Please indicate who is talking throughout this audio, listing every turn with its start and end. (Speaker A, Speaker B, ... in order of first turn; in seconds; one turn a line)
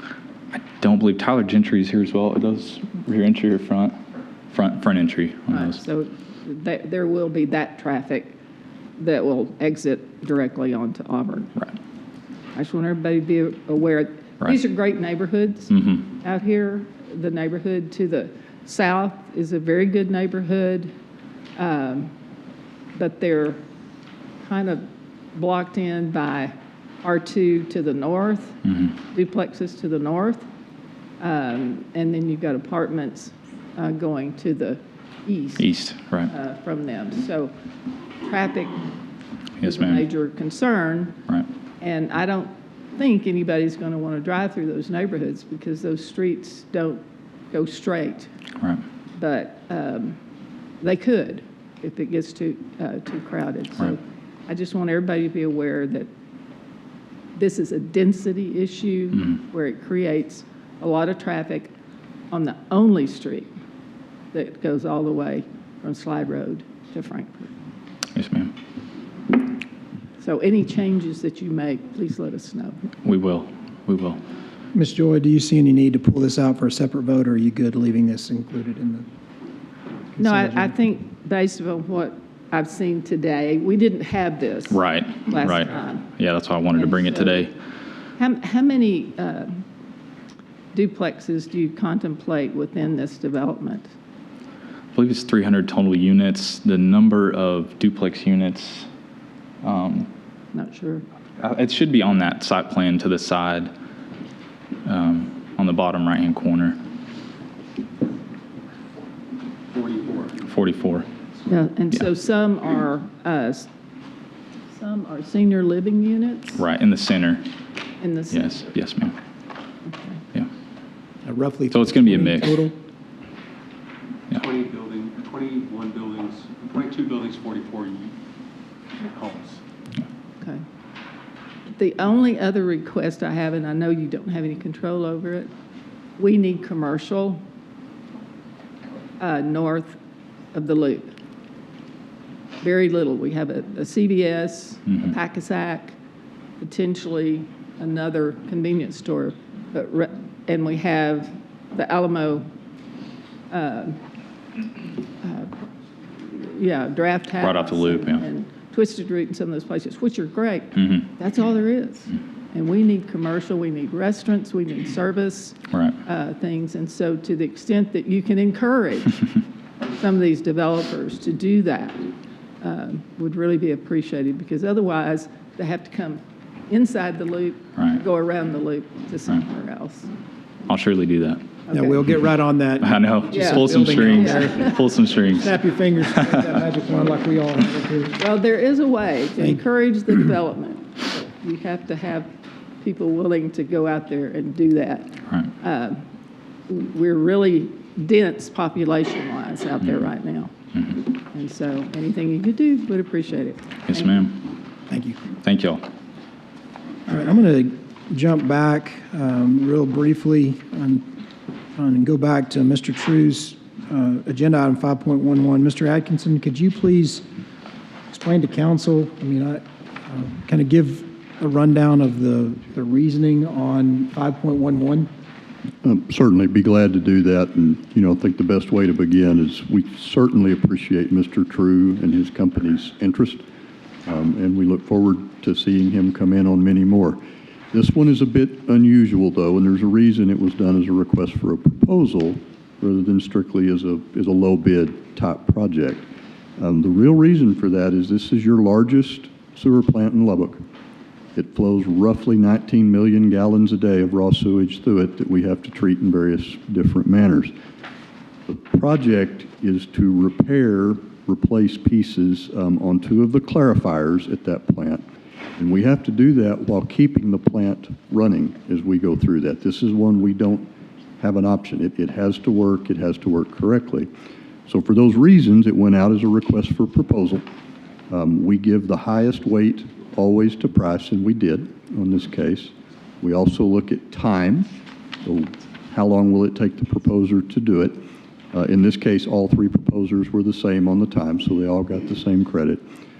Speaker A: 0.5-3.9
Speaker A: 4.5-5.8
Speaker B: 5.5-8.3
Speaker B: 9.0-11.7
Speaker B: 12.5-20.9
Speaker A: 15.7-16.0
Speaker B: 21.6-22.1
Speaker B: 22.9-23.6
Speaker B: 24.4-30.4
Speaker A: 28.6-28.9
Speaker B: 31.2-35.6
Speaker A: 35.6-36.3
Speaker B: 36.3-37.5
Speaker B: 38.2-38.8
Speaker A: 39.6-40.0
Speaker B: 39.6-41.1
Speaker B: 41.8-47.0
Speaker B: 47.5-48.3
Speaker B: 49.1-50.2
Speaker B: 50.8-56.1
Speaker B: 57.3-61.7
Speaker B: 62.3-63.5
Speaker B: 64.3-67.5
Speaker A: 68.1-68.5
Speaker B: 70.2-72.8
Speaker A: 73.0-74.2
Speaker C: 74.7-79.0
Speaker C: 80.2-80.7
Speaker B: 80.2-86.1
Speaker A: 84.7-87.5
Speaker B: 86.8-87.5
Speaker B: 88.2-89.6
Speaker B: 90.7-93.9
Speaker A: 94.9-98.9
Speaker A: 99.6-100.1
Speaker B: 100.5-101.0
Speaker A: 101.4-103.7
Speaker A: 104.8-106.8
Speaker D: 109.7-110.4
Speaker A: 110.4-111.1
Speaker B: 111.5-113.7
Speaker B: 114.7-116.6
Speaker A: 116.6-117.4
Speaker B: 118.0-118.7
Speaker A: 118.3-119.1
Speaker B: 119.9-120.2
Speaker C: 121.2-122.7
Speaker A: 121.7-122.6
Speaker D: 124.3-128.1
Speaker D: 129.0-129.6
Speaker B: 131.7-135.5
Speaker B: 136.2-137.4
Speaker B: 139.2-140.0
Speaker B: 140.5-141.1
Speaker B: 142.6-145.9
Speaker B: 146.6-152.4
Speaker B: 153.5-154.0
Speaker B: 155.2-155.5
Speaker B: 156.2-169.4
Speaker A: 157.4-158.2
Speaker A: 165.7-165.9
Speaker B: 169.9-172.1
Speaker B: 172.6-180.1
Speaker A: 180.7-181.4
Speaker B: 181.7-182.0
Speaker C: 181.7-184.7
Speaker A: 182.8-185.5
Speaker B: 183.3-184.7
Speaker C: 185.4-188.2
Speaker B: 188.2-192.3
Speaker B: 192.8-196.0
Speaker B: 196.7-204.4
Speaker A: 203.9-204.3
Speaker C: 204.9-205.3
Speaker A: 205.4-205.8
Speaker C: 207.1-211.1
Speaker C: 211.8-217.2
Speaker C: 218.1-225.1
Speaker E: 225.8-233.4
Speaker E: 234.1-237.2
Speaker E: 237.7-246.1
Speaker E: 246.6-250.6
Speaker E: 251.3-257.5
Speaker E: 258.5-265.0
Speaker E: 265.6-270.6
Speaker E: 271.2-274.1
Speaker E: 274.7-277.4
Speaker E: 278.1-284.7
Speaker E: 285.2-288.0
Speaker E: 288.5-292.8